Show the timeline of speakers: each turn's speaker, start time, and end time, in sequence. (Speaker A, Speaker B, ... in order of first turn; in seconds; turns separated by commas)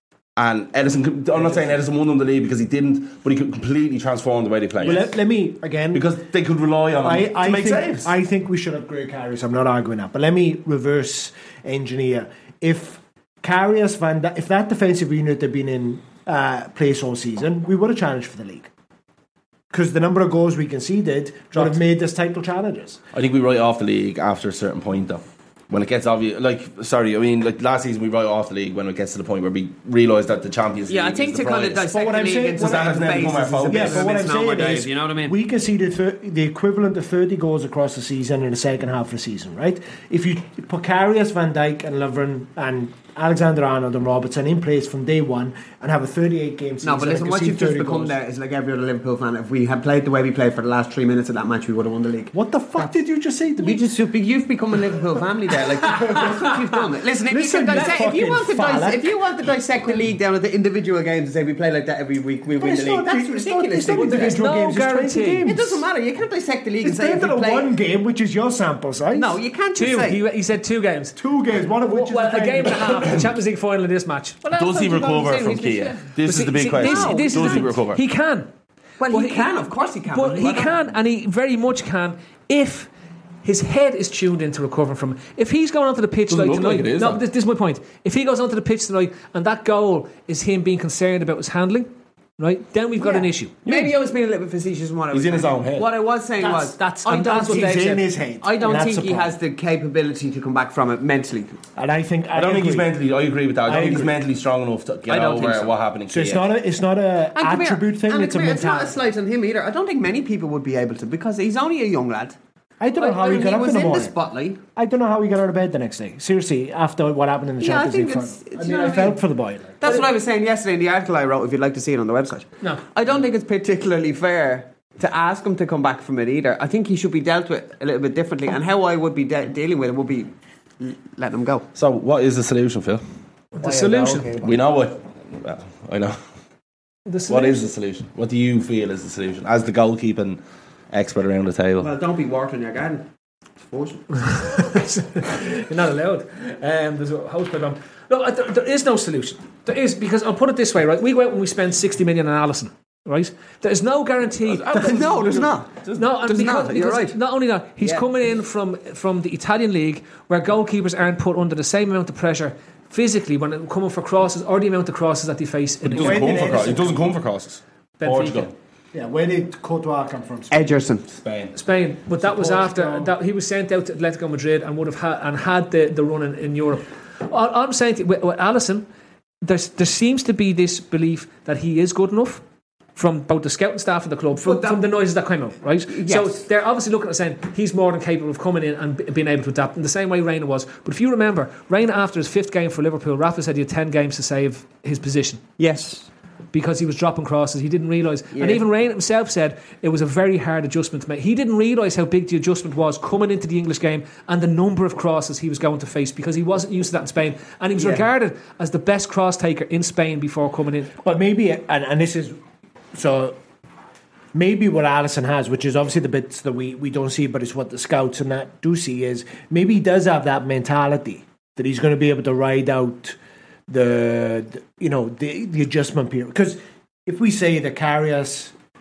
Speaker A: 0.4-5.1, Speaker B: 1.4-1.7, Speaker B: 4.8-6.0, Speaker A: 5.9-8.1, Speaker B: 7.0-18.7, Speaker B: 19.7-23.0, Speaker A: 23.1-31.9, Speaker C: 30.9-35.4, Speaker B: 31.9-48.1, Speaker A: 32.6-34.1, Speaker C: 46.8-52.9, Speaker B: 52.3-53.9, Speaker C: 53.6-64.3, Speaker B: 57.2-59.2, Speaker B: 62.6-65.8, Speaker D: 63.9-65.5, Speaker C: 65.4-67.7, Speaker B: 66.8-69.4, Speaker C: 69.1-70.2, Speaker D: 69.7-71.2, Speaker B: 71.2-73.3, Speaker D: 71.9-74.4, Speaker C: 74.4-76.1, Speaker A: 74.5-78.0, Speaker D: 76.2-78.5, Speaker C: 76.7-77.7, Speaker C: 79.0-80.8, Speaker D: 79.1-79.5, Speaker D: 80.1-82.9, Speaker D: 83.4-93.5, Speaker A: 86.3-87.2, Speaker C: 93.0-101.5, Speaker A: 93.7-93.9, Speaker A: 95.1-95.9, Speaker D: 96.4-98.0, Speaker B: 97.2-99.4, Speaker B: 101.8-102.9, Speaker A: 102.3-106.4, Speaker B: 103.6-104.2, Speaker C: 103.7-104.0, Speaker C: 105.1-105.7, Speaker B: 106.1-109.0, Speaker C: 107.3-112.4, Speaker B: 112.8-114.1, Speaker C: 113.0-114.6, Speaker B: 114.7-119.9, Speaker C: 117.6-119.2, Speaker C: 119.8-131.7, Speaker A: 131.7-133.0, Speaker D: 133.6-134.3, Speaker C: 133.6-134.6, Speaker A: 134.4-136.2, Speaker D: 137.1-137.7, Speaker A: 137.3-141.9, Speaker C: 141.8-143.1, Speaker C: 143.7-144.1, Speaker D: 144.2-154.7, Speaker A: 154.4-156.2, Speaker C: 154.7-155.7, Speaker D: 155.9-166.6, Speaker C: 156.2-157.1, Speaker A: 165.8-168.5, Speaker B: 165.9-167.1, Speaker D: 168.0-168.5, Speaker B: 168.9-170.8, Speaker C: 170.5-171.0, Speaker A: 171.1-171.6, Speaker D: 171.5-178.8, Speaker B: 172.2-173.1, Speaker D: 179.4-182.4, Speaker D: 182.9-195.4, Speaker C: 184.4-184.8, Speaker C: 185.9-186.4, Speaker C: 195.6-196.1, Speaker D: 196.5-210.9, Speaker C: 198.3-198.6, Speaker B: 211.0-212.4, Speaker B: 212.9-213.4, Speaker B: 214.3-228.5